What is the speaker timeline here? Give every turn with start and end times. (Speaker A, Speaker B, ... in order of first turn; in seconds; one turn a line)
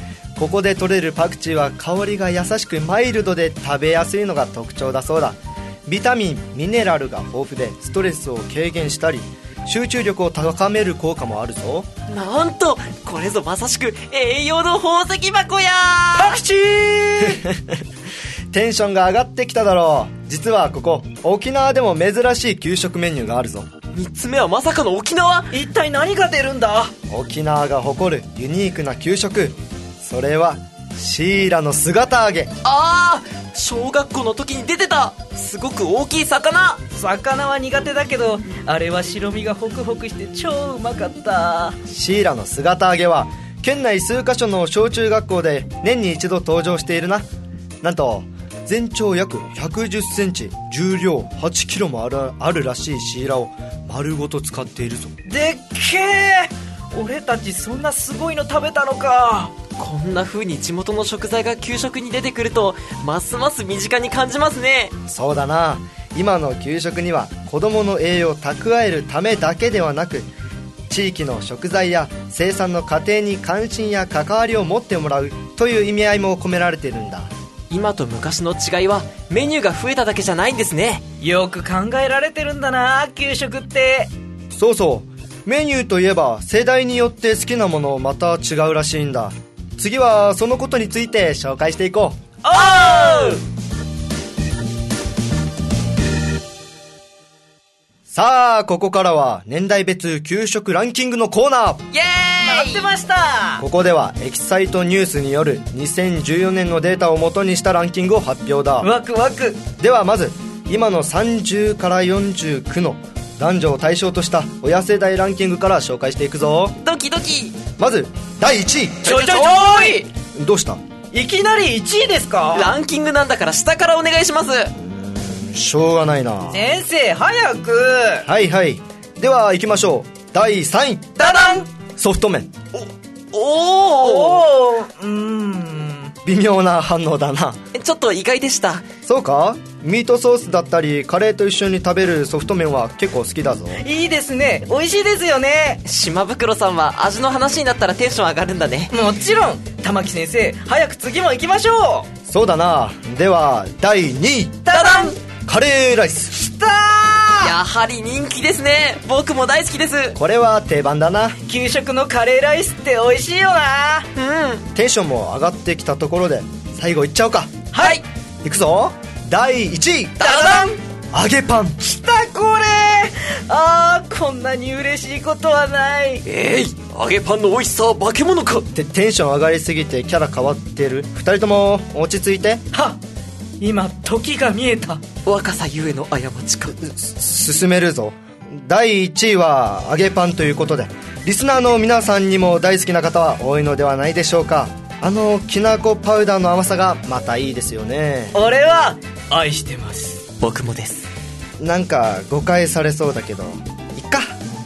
Speaker A: 0.3-11.9
Speaker B: 12.1-16.4
Speaker C: 16.2-17.4
Speaker A: 17.3-17.7
Speaker A: 18.5-23.7
Speaker B: 23.9-25.5
Speaker C: 25.5-26.9
Speaker A: 27.1-32.5
Speaker B: 32.6-36.8
Speaker C: 36.9-41.8
Speaker A: 41.9-47.3
Speaker A: 47.8-55.1
Speaker C: 55.2-59.5
Speaker B: 59.8-64.9
Speaker A: 65.1-70.3
Speaker A: 70.9-77.3
Speaker B: 77.7-81.0
Speaker C: 81.2-84.1
Speaker A: 84.5-92.2
Speaker C: 92.4-93.4
Speaker B: 92.5-93.4
Speaker A: 98.1-101.8
Speaker B: 101.9-102.9
Speaker C: 102.4-103.6
Speaker A: 103.6-108.9
Speaker C: 108.8-109.6
Speaker A: 109.8-116.8
Speaker B: 116.8-117.6
Speaker A: 117.8-119.1
Speaker C: 119.0-120.0
Speaker B: 119.0-120.1
Speaker A: 120.3-120.8
Speaker C: 121.1-122.7
Speaker B: 122.5-124.7
Speaker A: 124.8-126.6
Speaker C: 126.5-128.3
Speaker A: 128.2-131.2
Speaker B: 131.2-131.7
Speaker C: 131.2-131.6
Speaker A: 132.0-132.5
Speaker B: 132.7-134.5
Speaker C: 134.0-136.1
Speaker A: 136.2-137.6
Speaker B: 137.7-138.8
Speaker A: 139.0-143.8
Speaker C: 143.8-145.8
Speaker B: 145.8-148.9
Speaker C: 148.9-152.1
Speaker A: 152.3-154.7
Speaker C: 154.7-155.1
Speaker B: 154.7-155.2
Speaker A: 155.4-156.4
Speaker C: 156.3-157.6
Speaker B: 157.4-160.2
Speaker A: 160.1-161.4
Speaker C: 161.4-164.1
Speaker B: 164.1-164.7
Speaker A: 164.7-167.6
Speaker C: 167.7-168.0
Speaker B: 167.8-168.0
Speaker A: 168.4-170.2
Speaker B: 170.2-170.8
Speaker C: 170.2-170.8
Speaker A: 171.1-171.8
Speaker C: 171.8-176.2
Speaker B: 176.2-178.7
Speaker A: 178.7-182.6
Speaker C: 182.7-183.0
Speaker C: 183.6-185.0
Speaker B: 185.2-186.8
Speaker A: 186.8-198.4
Speaker C: 198.3-200.2
Speaker B: 200.4-201.1
Speaker A: 201.6-204.3